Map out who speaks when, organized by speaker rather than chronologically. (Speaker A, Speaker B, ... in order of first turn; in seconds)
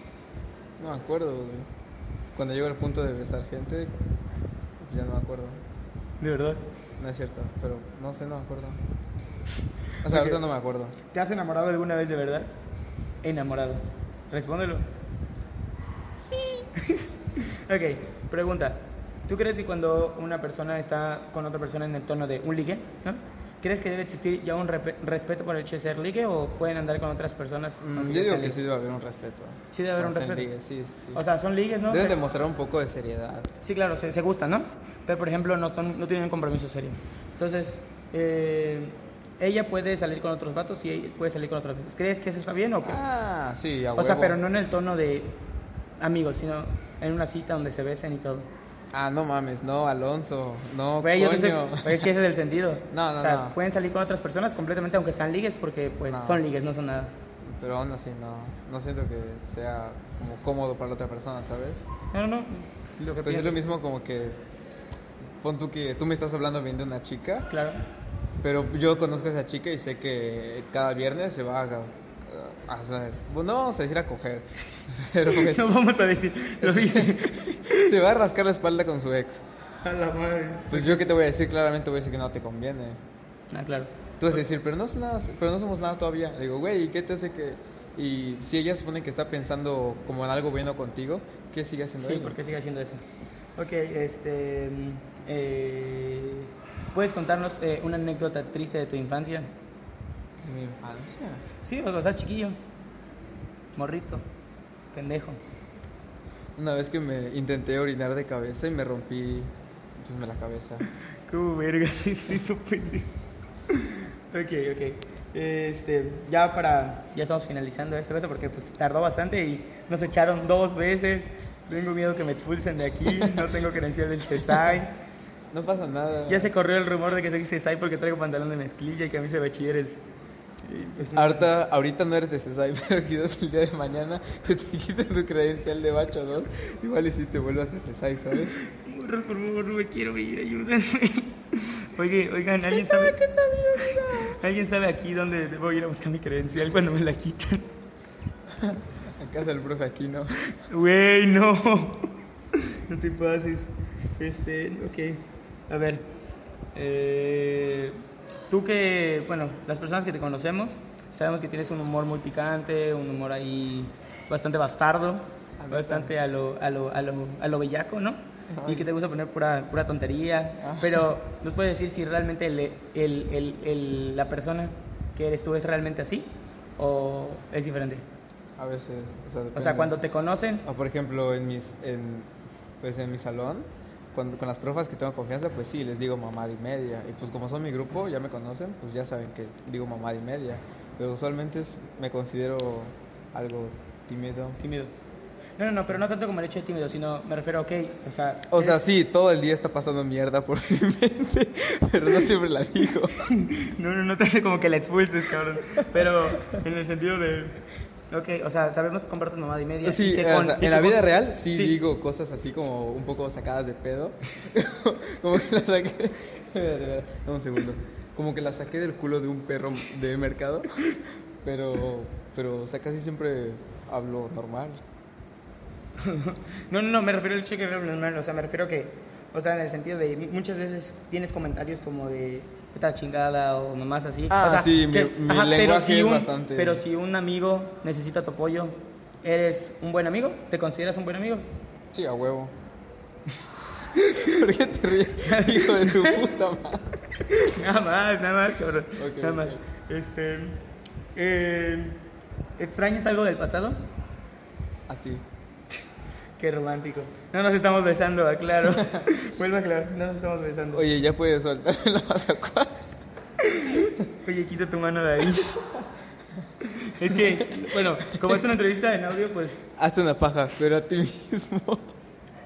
Speaker A: 0.8-1.7, 2.3-4.0, 4.8-5.6, 7.0-8.8, 10.0-11.0, 27.8-31.2, 31.9-33.5, 42.8-44.4, 48.9-52.1, 52.9-53.5, 56.1-56.4, 57.4-61.8, 63.2-64.4, 65.2-67.5, 68.4-75.7, 76.6-79.4, 80.7-83.0, 84.2-92.3, 100.4-101.4, 106.6-110.9, 125.5-126.5, 131.1-138.6, 142.7-144.4, 148.5-150.3, 165.6-166.1, 168.5-168.9, 170.6-171.1, 178.6-180.0, 180.6-182.3, 182.8-194.6, 198.5-203.3, 209.8-220.8, 221.4-224.8, 234.3-236.8, 241.9-242.5, 243.9-247.0, 249.0-249.6, 254.9-255.2, 260.7-262.9, 263.8-264.0, 267.0-268.4, 269.8-271.9
Speaker B: 6.2-6.6, 10.0-10.4, 11.1-12.5, 13.2-14.8, 16.6-28.6, 29.7-30.5, 31.1-32.2, 33.6-43.0, 44.0-45.4, 46.0-48.5, 51.0-57.1, 62.1-63.6, 67.5-67.8, 75.3-77.9, 79.8-81.1, 83.5-84.0, 92.0-93.0, 93.5-99.5, 101.6-102.6, 103.8-104.2, 104.9-105.4, 111.3-113.1, 113.7-125.0, 126.3-130.0, 130.6-131.5, 138.5-143.2, 143.7-147.7, 150.5-156.1, 156.7-178.0, 179.5-180.6, 194.6-194.9, 195.6-198.8, 203.2-211.8, 226.0-241.5, 244.0-244.3, 245.2-246.2, 247.1-250.6, 251.2-252.0, 252.6-253.8, 256.4-260.8, 263.4-265.6, 266.6-269.6